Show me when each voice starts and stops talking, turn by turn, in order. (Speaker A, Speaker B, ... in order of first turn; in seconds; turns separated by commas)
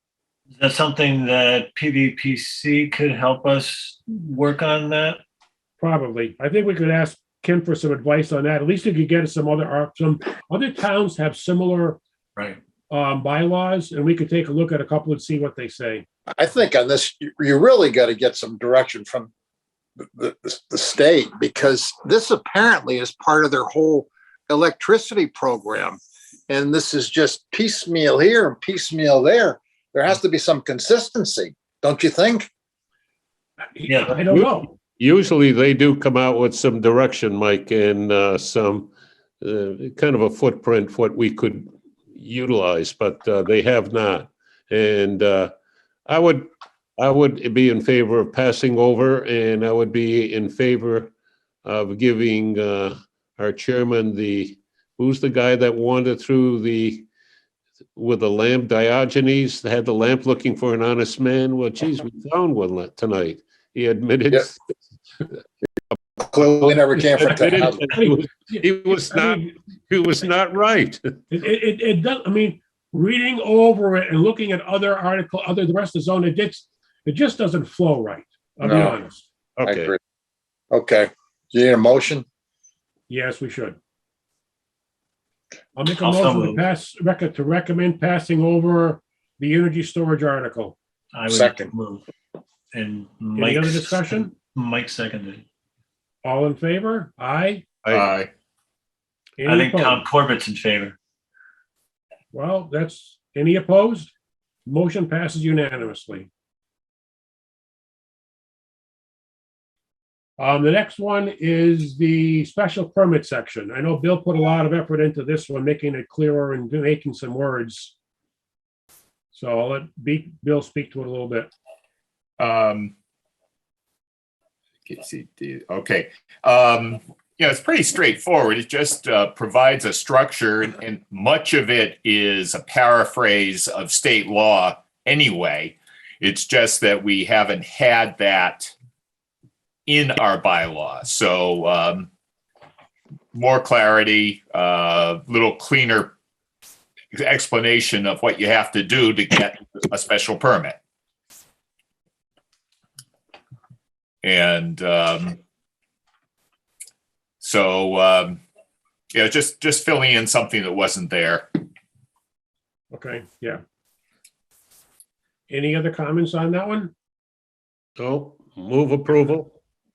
Speaker A: 0.5-5.2, Speaker B: 5.8-12.0, Speaker B: 12.9-16.1, Speaker C: 16.3-19.3, Speaker C: 20.0-32.5, Speaker B: 33.8-34.7, Speaker A: 33.9-34.2, Speaker D: 34.3-38.9, Speaker D: 39.4-45.5, Speaker D: 46.1-51.1, Speaker D: 51.6-57.1, Speaker D: 58.0-64.7, Speaker C: 66.2-67.8, Speaker D: 66.6-71.1, Speaker B: 67.9-69.4, Speaker B: 71.3-79.2, Speaker C: 78.6-79.0, Speaker D: 79.6-79.9, Speaker C: 79.6-80.0, Speaker C: 80.7-82.2, Speaker B: 83.1-83.8, Speaker B: 85.8-90.8, Speaker A: 86.0-86.6, Speaker A: 91.1-92.0, Speaker C: 91.3-91.7, Speaker A: 92.7-95.4, Speaker B: 93.4-94.3, Speaker B: 96.2-97.6, Speaker D: 97.8-98.1, Speaker E: 97.9-98.3, Speaker B: 99.4-100.0, Speaker A: 99.4-101.0, Speaker B: 102.3-104.1, Speaker B: 104.7-106.3, Speaker B: 110.4-117.9, Speaker B: 119.3-121.5, Speaker E: 122.4-122.9, Speaker E: 124.9-138.7, Speaker E: 139.9-142.1, Speaker E: 143.3-146.1, Speaker E: 147.1-150.8, Speaker E: 154.2-155.4, Speaker E: 157.4-158.4, Speaker E: 159.1-161.5, Speaker B: 162.9-163.6, Speaker B: 165.5-166.9, Speaker D: 168.0-169.5